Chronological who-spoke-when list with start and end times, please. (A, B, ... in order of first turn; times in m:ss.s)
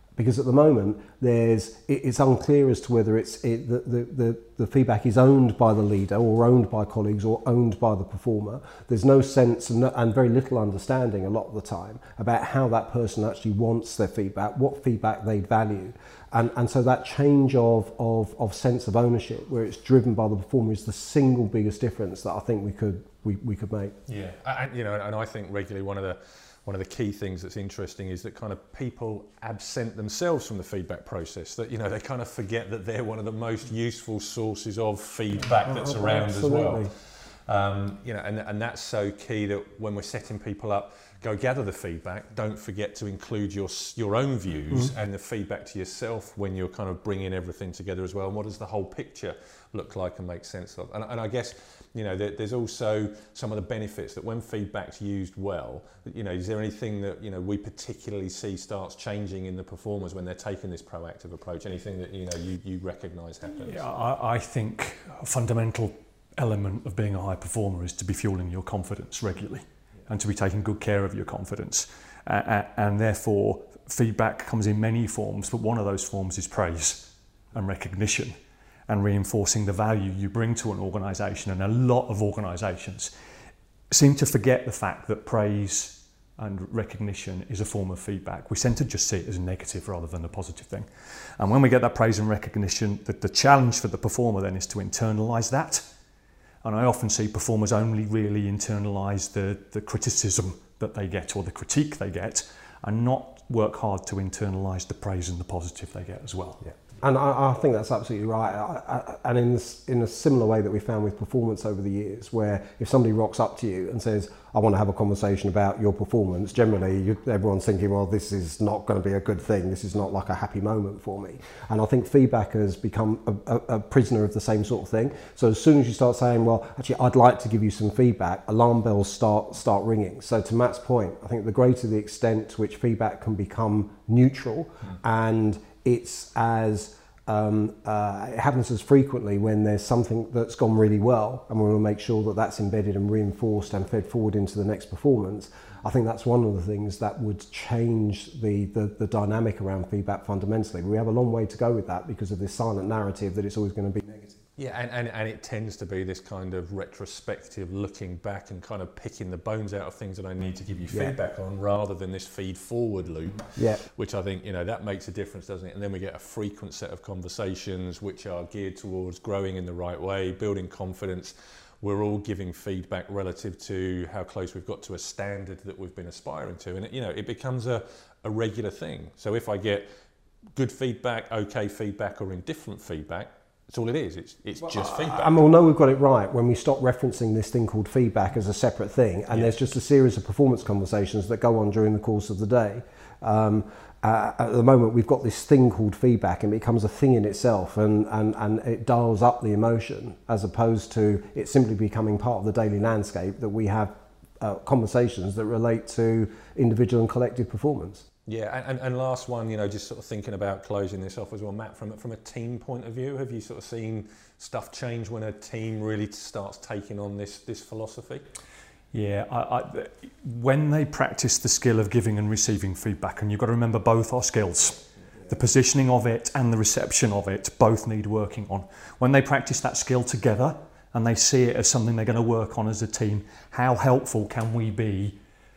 0:00.2-0:24.0 A
0:24.1-1:03.9 B
0:35.7-0:36.9 A
1:03.5-1:18.4 C
1:18.9-1:23.1 C
1:23.9-1:35.9 C
1:36.6-1:46.6 C
1:47.0-2:34.4 A
2:34.6-2:59.9 B
2:40.9-2:41.2 A
2:43.6-2:43.8 A
3:00.6-3:05.4 B
3:04.7-3:28.0 A
3:28.3-3:38.2 B
3:38.9-3:55.2 C